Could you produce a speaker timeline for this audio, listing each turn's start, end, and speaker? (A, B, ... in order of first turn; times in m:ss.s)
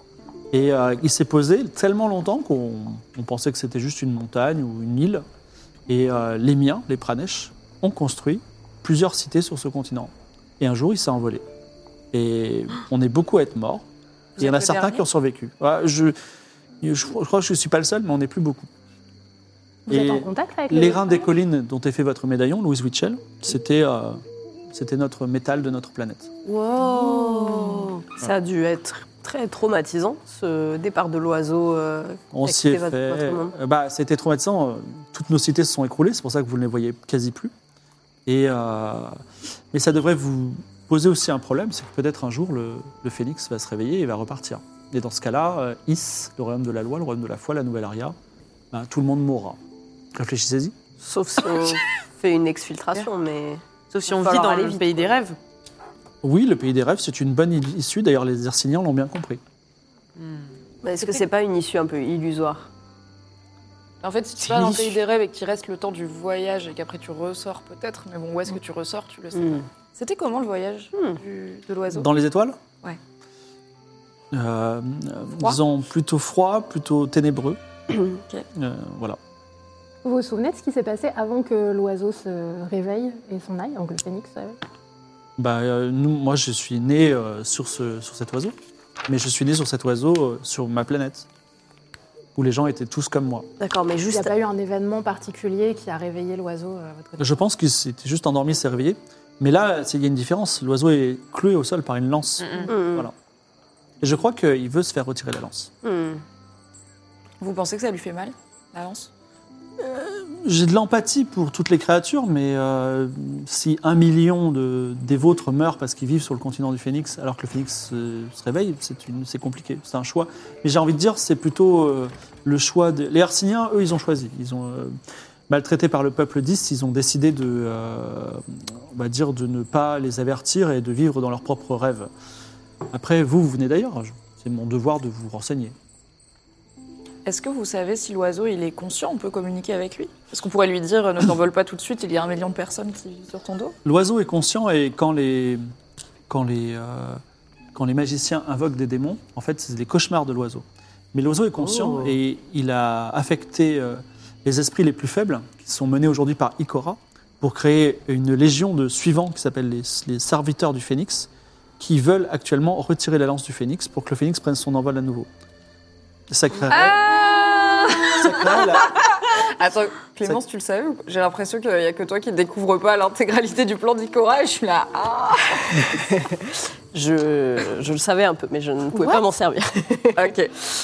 0:00.5-0:05.2 A
0:05.9-0:11.4 A
0:12.1-0:13.8 A
0:14.4-0:15.0 B
0:14.4-0:16.2 A
0:16.8-0:18.7 A
0:19.9-0:21.2 C
0:19.9-0:26.3 A
0:26.5-0:33.5 D
0:26.6-0:27.9 C
0:32.3-0:37.5 A
0:38.2-0:39.2 A
0:39.7-0:48.2 A
0:48.7-0:49.6 A
0:50.1-0:50.8 A
0:51.0-0:55.2 D
0:53.9-0:55.4 E
0:56.2-0:59.4 A
1:00.2-1:00.5 E
1:00.8-1:02.7 D
1:04.0-1:12.1 B
1:09.4-1:09.6 D
1:10.9-1:11.2 D
1:11.9-1:12.6 A
1:14.3-1:17.6 A
1:18.5-1:19.2 A
1:20.0-1:24.6 C
1:25.4-1:28.5 A
1:29.1-1:31.3 A
1:32.3-1:33.5 A
1:33.6-1:34.3 D
1:34.1-1:37.4 C
1:37.2-1:43.1 A
1:42.4-1:42.7 E
1:42.7-1:43.1 D
1:44.0-1:45.7 A
1:45.8-1:46.2 D
1:47.4-1:49.1 B
1:49.8-2:05.0 A
2:05.5-2:12.1 A
2:12.9-2:15.8 A
2:17.2-2:23.7 B
2:23.8-2:25.6 A
2:26.3-2:27.2 A
2:27.7-2:45.3 A
2:31.6-2:32.1 D
2:46.3-2:47.0 A
2:46.7-2:56.1 B
2:48.1-2:49.0 A
2:56.0-3:00.3 D
2:58.9-2:59.2 B
3:00.1-3:00.5 B